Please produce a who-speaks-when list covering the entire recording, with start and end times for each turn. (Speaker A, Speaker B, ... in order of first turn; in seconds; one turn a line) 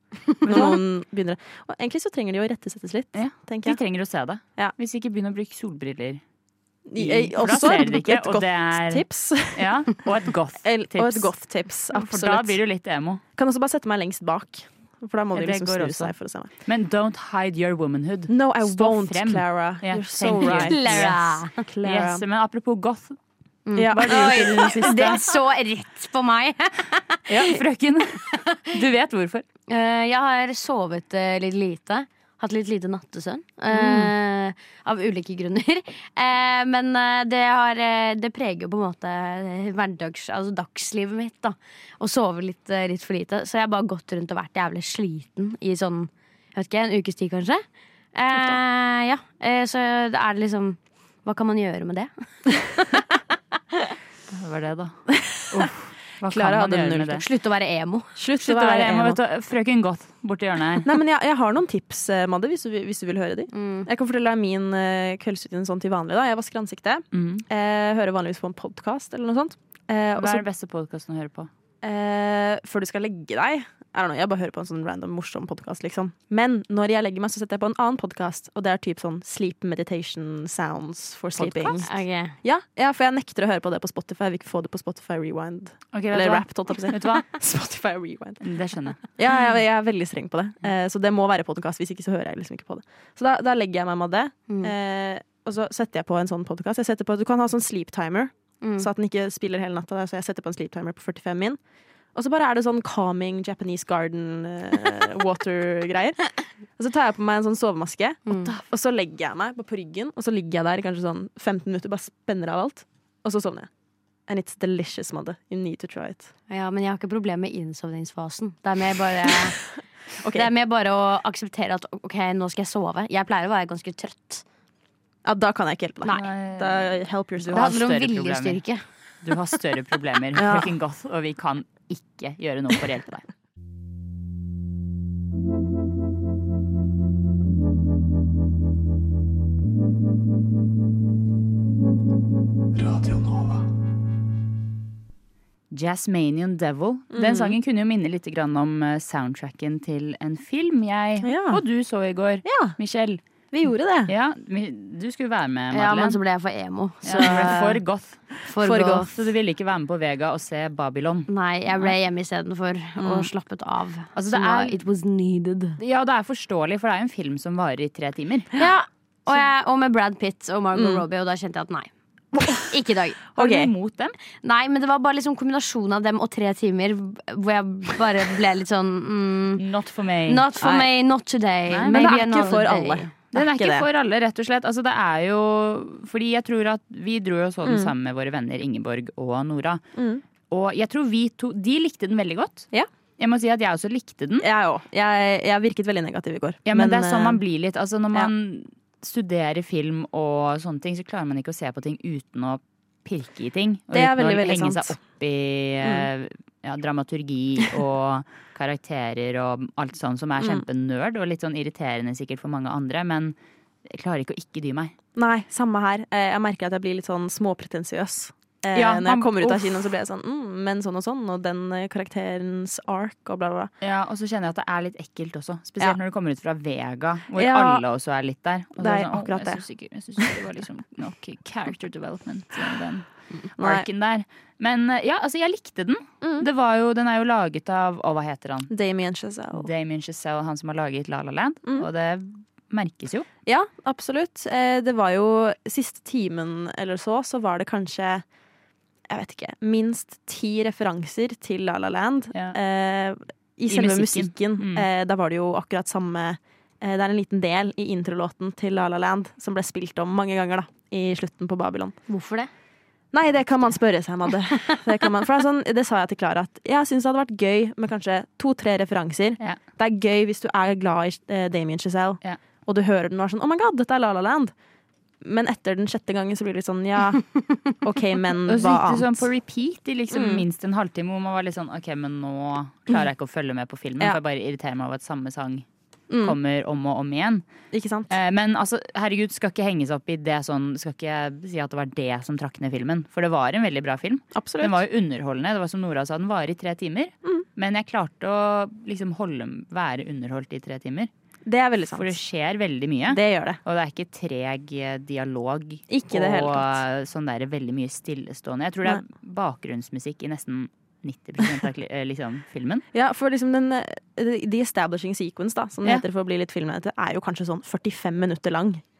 Speaker A: 0.4-3.8
Speaker B: 3.1-6.2
Speaker A: 6.9-10.1
Speaker B: 7.0-11.3
Speaker A: 10.6-12.6
Speaker B: 11.9-13.2
Speaker A: 13.3-16.5
Speaker B: 15.3-16.1
Speaker B: 16.6-23.1
Speaker A: 18.3-20.8
Speaker C: 20.6-21.5
Speaker A: 21.7-22.2
Speaker C: 23.7-27.6
Speaker A: 23.8-24.8
Speaker B: 23.9-25.2
Speaker B: 27.3-29.4
Speaker C: 28.3-28.6
Speaker C: 29.7-47.6
Speaker A: 33.7-34.1
Speaker C: 48.1-52.1
Speaker B: 54.3-57.2
Speaker A: 56.3-57.2
Speaker C: 57.1-58.1
Speaker A: 58.1-59.2
Speaker B: 58.4-60.9
Speaker A: 60.8-70.4
Speaker C: 63.5-63.9
Speaker B: 67.1-67.4
Speaker B: 70.2-71.5
Speaker A: 71.8-81.9
Speaker B: 81.4-81.8
Speaker C: 81.8-82.3
Speaker A: 82.4-88.4
Speaker B: 85.9-87.3
Speaker B: 88.4-89.0
Speaker A: 89.0-101.6
Speaker C: 94.5-94.7
Speaker C: 98.6-98.9
Speaker A: 102.1-106.2
Speaker A: 106.8-113.7
Speaker C: 108.3-108.5
Speaker A: 114.3-116.3
Speaker C: 116.5-119.6
Speaker A: 120.2-120.5
Speaker C: 120.3-124.4
Speaker A: 125.2-127.8
Speaker B: 126.0-126.9
Speaker C: 127.5-128.8
Speaker B: 127.5-128.6
Speaker B: 129.2-133.2
Speaker A: 130.3-130.7
Speaker B: 145.7-153.2
Speaker A: 147.1-147.6
Speaker A: 151.2-151.6
Speaker A: 152.4-152.8
Speaker A: 153.5-154.1
Speaker B: 154.1-156.2
Speaker C: 155.7-157.7
Speaker B: 157.0-161.9
Speaker A: 157.2-157.7
Speaker C: 158.4-159.1
Speaker C: 161.3-165.8
Speaker A: 163.0-163.3
Speaker B: 164.1-164.8
Speaker B: 165.8-168.5
Speaker C: 168.5-171.9
Speaker A: 170.7-171.0
Speaker C: 172.6-173.2
Speaker B: 173.3-174.2
Speaker A: 173.4-173.7
Speaker C: 174.4-179.6
Speaker B: 179.6-180.4
Speaker C: 180.3-183.1
Speaker A: 180.6-180.9
Speaker B: 181.7-182.0
Speaker A: 181.9-183.8
Speaker B: 183.3-189.8
Speaker A: 187.7-187.9
Speaker A: 189.9-190.2
Speaker B: 190.5-194.5
Speaker A: 194.4-197.4
Speaker B: 196.7-213.3
Speaker A: 203.9-205.0
Speaker A: 205.8-206.1
Speaker B: 213.9-214.9
Speaker A: 215.2-223.7
Speaker B: 218.7-219.9
Speaker B: 223.8-238.7
Speaker A: 227.3-227.8
Speaker A: 228.8-229.6
Speaker A: 233.4-233.8
Speaker A: 236.2-236.5
Speaker A: 238.7-239.7
Speaker B: 239.6-243.3
Speaker A: 243.4-248.2
Speaker A: 249.1-261.9
Speaker B: 253.7-254.9
Speaker C: 262.1-262.5
Speaker A: 263.1-274.5
Speaker A: 275.2-279.2
Speaker B: 278.5-285.6
Speaker A: 280.1-280.4
Speaker A: 286.1-286.4
Speaker B: 286.2-287.4
Speaker A: 287.7-288.1
Speaker B: 288.1-301.1
Speaker A: 294.3-294.8
Speaker A: 301.4-302.1
Speaker B: 301.9-312.8
Speaker A: 303.1-303.6
Speaker A: 305.9-306.8
Speaker A: 312.9-318.8